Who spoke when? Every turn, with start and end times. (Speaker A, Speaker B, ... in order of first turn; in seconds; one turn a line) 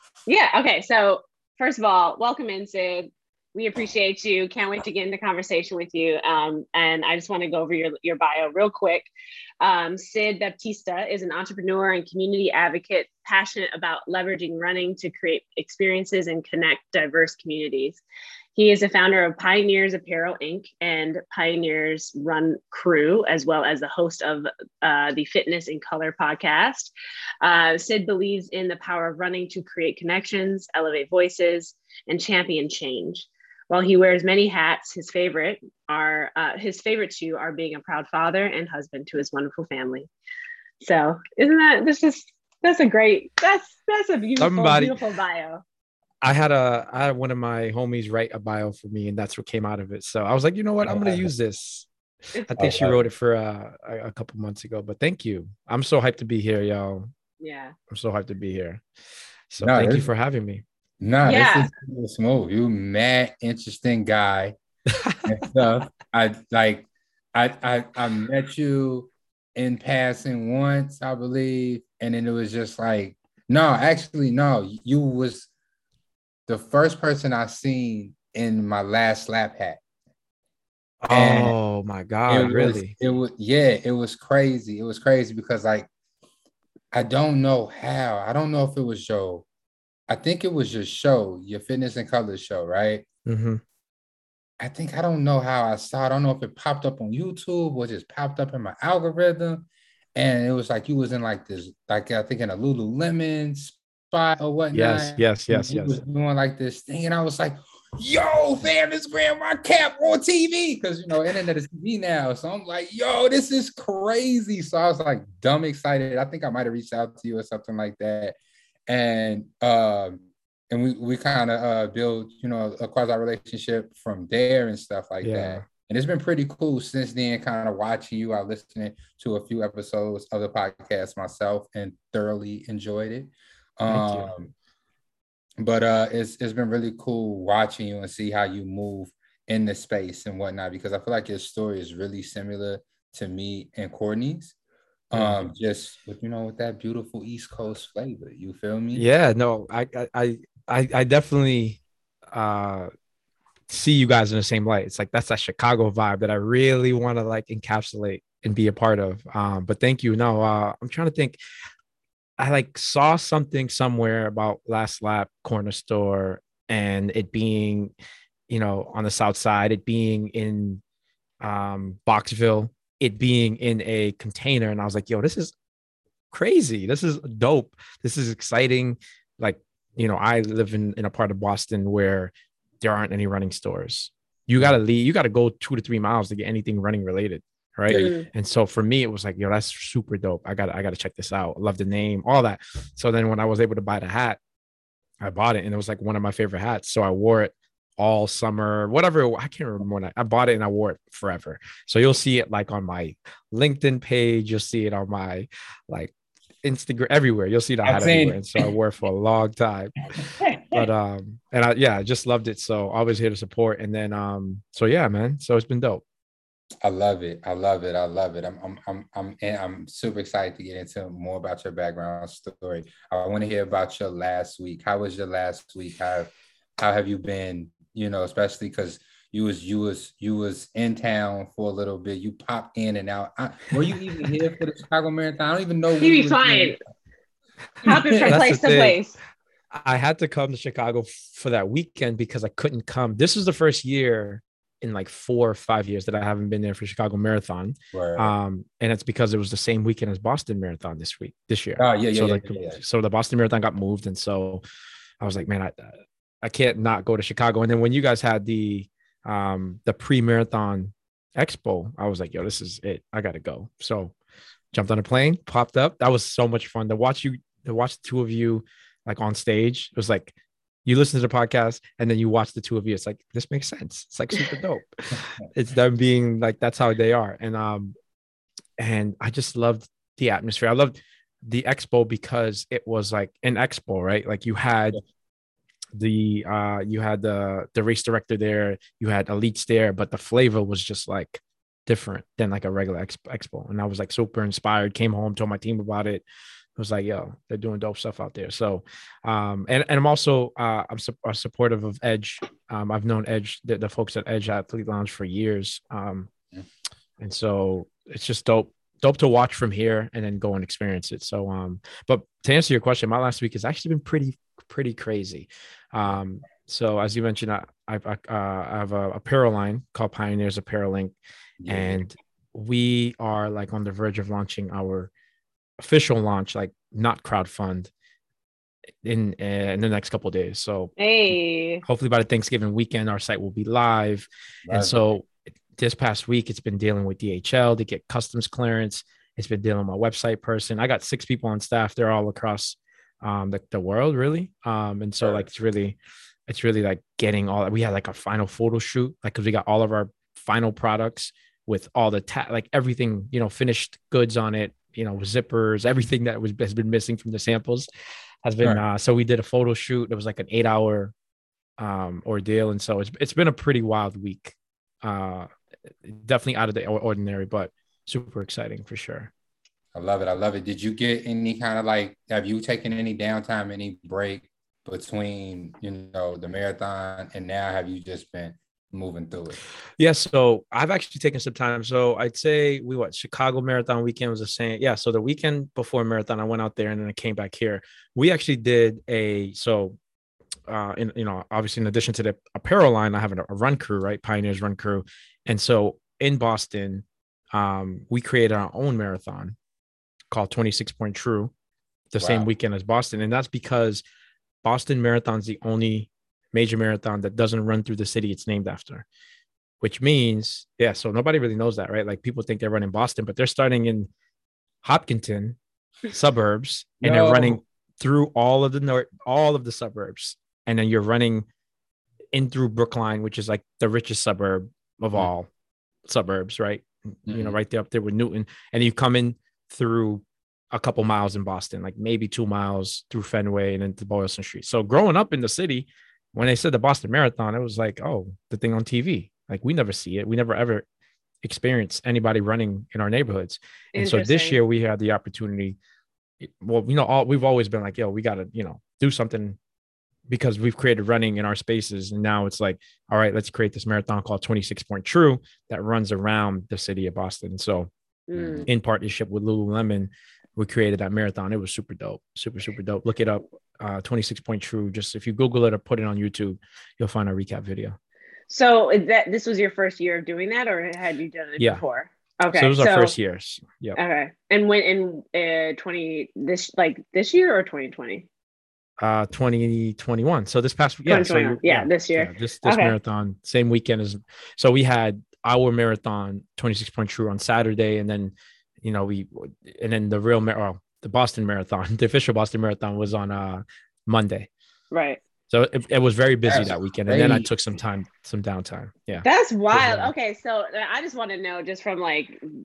Speaker A: 0.2-18.0
Speaker A: 18.5-40.1
Speaker A: 40.8-45.6
Speaker B: 44.4-45.0
Speaker B: 46.2-51.9
Speaker C: 50.8-51.3
Speaker B: 52.4-57.1
Speaker C: 52.6-53.0
Speaker A: 57.4-57.8
Speaker B: 57.9-58.8
Speaker B: 59.5-60.6
Speaker C: 59.6-60.1
Speaker C: 61.0-64.5
Speaker A: 61.2-61.7
Speaker B: 64.9-65.2
Speaker C: 65.2-75.5
Speaker C: 76.5-79.8
Speaker B: 81.0-82.9
Speaker C: 81.1-81.5
Speaker C: 82.3-85.9
Speaker C: 86.9-89.5
Speaker C: 90.1-93.0
Speaker B: 93.2-93.6
Speaker C: 94.6-118.4
Speaker B: 104.7-106.0
Speaker C: 118.9-134.5
Speaker B: 125.2-125.6
Speaker B: 133.9-134.3
Speaker C: 135.6-144.5
Speaker C: 145.1-149.1
Speaker B: 145.1-145.4
Speaker B: 148.9-152.9
Speaker B: 153.7-161.4
Speaker B: 162.4-167.9
Speaker B: 168.5-170.8
Speaker B: 171.4-175.5
Speaker B: 176.3-194.4
Speaker C: 187.9-188.2
Speaker A: 187.9-188.3
Speaker B: 195.2-206.1
Speaker B: 206.6-209.9
Speaker C: 207.8-208.7
Speaker C: 210.4-210.8
Speaker B: 210.7-216.0
Speaker C: 216.8-236.7
Speaker A: 236.0-236.8
Speaker C: 237.8-238.4
Speaker A: 237.8-239.1
Speaker B: 238.2-239.0
Speaker B: 239.7-254.6
Speaker C: 247.9-248.3
Speaker C: 251.8-252.8
Speaker B: 255.2-264.1
Speaker B: 264.7-270.3
Speaker B: 270.8-277.9
Speaker B: 278.8-285.0
Speaker B: 285.9-296.2
Speaker B: 296.8-306.3
Speaker B: 307.2-321.1
Speaker C: 321.6-322.0
Speaker B: 321.7-325.1
Speaker B: 325.8-327.9
Speaker B: 329.0-330.9
Speaker A: 331.0-331.8
Speaker B: 331.8-357.9
Speaker C: 334.6-335.0
Speaker C: 345.2-345.5
Speaker B: 358.4-361.1
Speaker B: 361.8-365.5
Speaker B: 366.0-369.3
Speaker C: 369.9-379.6
Speaker B: 380.0-390.0
Speaker B: 390.7-399.6
Speaker B: 400.3-401.5
Speaker B: 402.1-404.0
Speaker C: 402.2-402.4
Speaker B: 404.6-409.1
Speaker B: 409.8-414.1
Speaker B: 414.8-421.5
Speaker C: 417.0-417.6
Speaker B: 422.3-425.5
Speaker B: 426.0-440.9
Speaker C: 427.3-427.6
Speaker B: 441.4-445.8
Speaker A: 443.9-444.6
Speaker B: 446.4-449.6
Speaker B: 450.3-457.9
Speaker A: 458.3-458.6
Speaker C: 458.3-458.7
Speaker B: 458.6-468.0
Speaker A: 468.5-473.1
Speaker B: 472.5-474.0
Speaker A: 473.9-478.3
Speaker B: 479.0-494.5
Speaker A: 481.1-482.9
Speaker A: 494.9-495.2
Speaker B: 495.5-500.1
Speaker C: 496.5-497.5
Speaker A: 499.2-502.5